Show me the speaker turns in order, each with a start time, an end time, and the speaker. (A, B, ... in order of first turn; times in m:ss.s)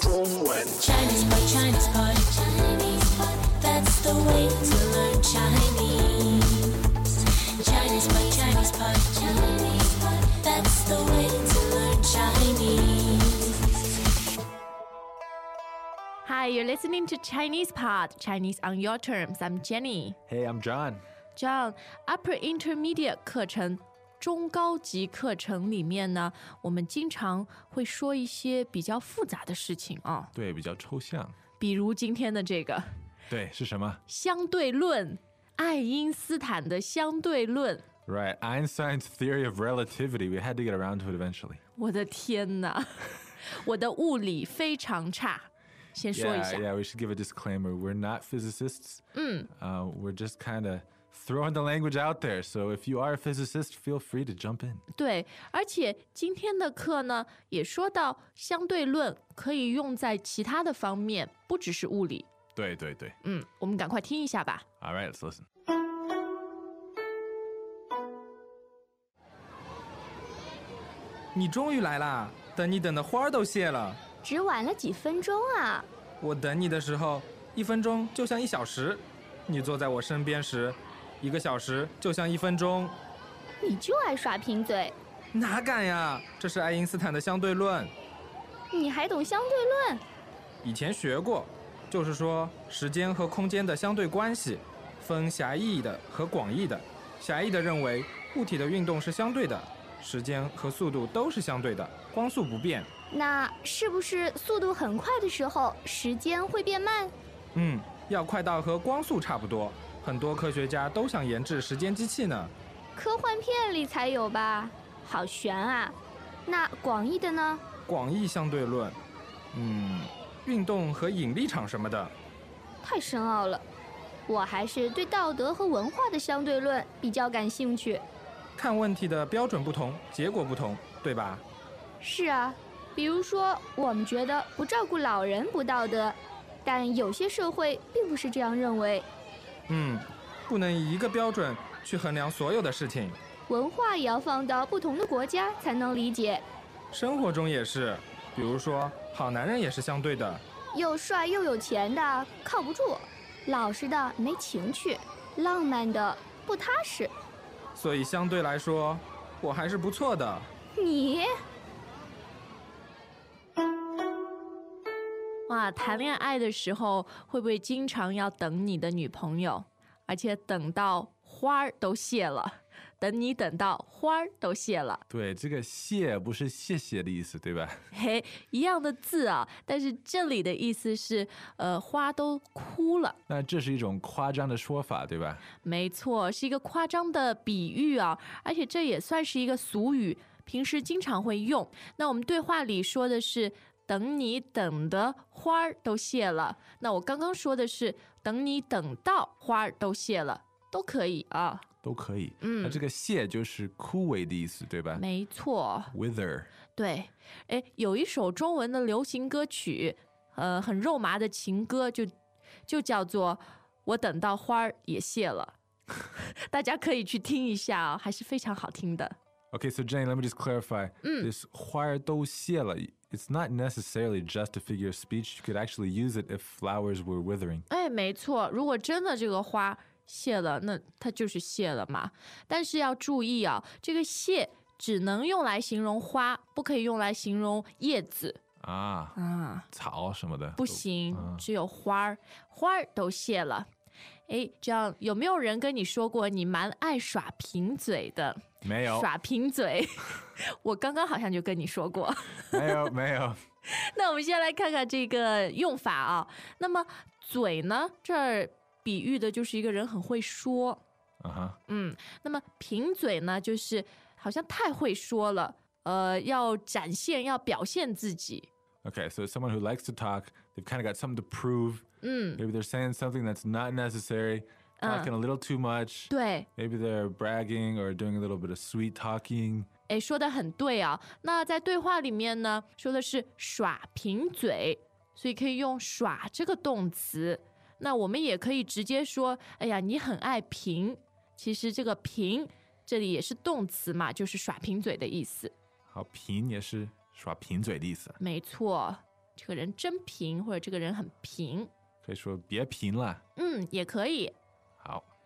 0:00.7-0:06.9 A
0:07.6-0:13.5 A
0:16.2-0:20.2 B
0:20.3-0:21.0 C
0:21.4-0:30.3 B
0:30.4-0:31.4 C
0:31.6-0:32.9 B
0:33.3-0:34.0 C
0:34.1-0:37.8 B
0:38.1-0:41.6 C
0:41.8-0:46.6 B
0:46.1-0:54.8 C
0:49.1-0:49.5 B
0:55.0-1:02.3 B
1:02.6-1:03.2 C
1:03.2-1:04.6 B
1:04.8-1:05.4 C
1:11.3-1:14.0 D
1:14.2-1:15.8 E
1:16.2-1:23.0 D
1:23.6-1:24.9 E
1:25.3-1:27.9 D
1:28.7-1:30.0 E
1:30.6-1:42.9 D
1:43.1-1:47.1 E
1:47.6-1:52.5 D
1:53.0-1:56.0 E
1:56.5-1:57.6 E
1:57.9-1:59.0 D
1:59.5-2:02.1 D
2:02.8-2:03.6 E
2:04.3-2:08.0 E
2:08.6-2:11.4 D
2:12.0-2:19.1 E
2:19.7-2:23.2 D
2:23.5-2:26.4 E
2:26.9-2:30.4 D
2:30.7-2:37.1 E
2:37.8-2:40.5 D
2:40.8-2:41.2 E
2:45.5-2:55.0 B
2:55.1-2:57.8 C
2:57.9-3:03.2 B
3:03.3-3:05.4 C
3:05.6-3:21.7 B
3:21.8-3:25.0 C
3:22.4-3:22.8 B
3:24.9-3:25.9 B
3:25.9-3:26.5 C
3:26.8-3:32.1 B
3:32.7-3:35.5 B
3:36.1-3:39.2 B
3:39.5-3:47.7 C
3:41.0-3:41.3 B
3:47.7-3:58.4 B
3:58.6-3:59.2 C
3:59.2-3:59.7 B
3:59.7-4:01.4 C
4:00.6-4:03.7 B
4:04.3-4:12.9 B
4:08.6-4:09.1 C
4:12.5-4:13.4 C
4:13.7-4:20.8 B
4:21.2-4:21.6 C
4:21.7-4:28.5 B
4:28.8-4:31.8 C
4:32.0-4:32.4 B
4:32.4-4:39.7 C
4:34.8-4:35.1 B
4:36.1-4:36.5 B
4:39.9-4:55.5 B
4:55.9-4:58.2 C
4:58.2-5:01.7 B
5:02.0-5:03.2 C
5:03.4-5:04.3 B
5:04.8-5:05.1 C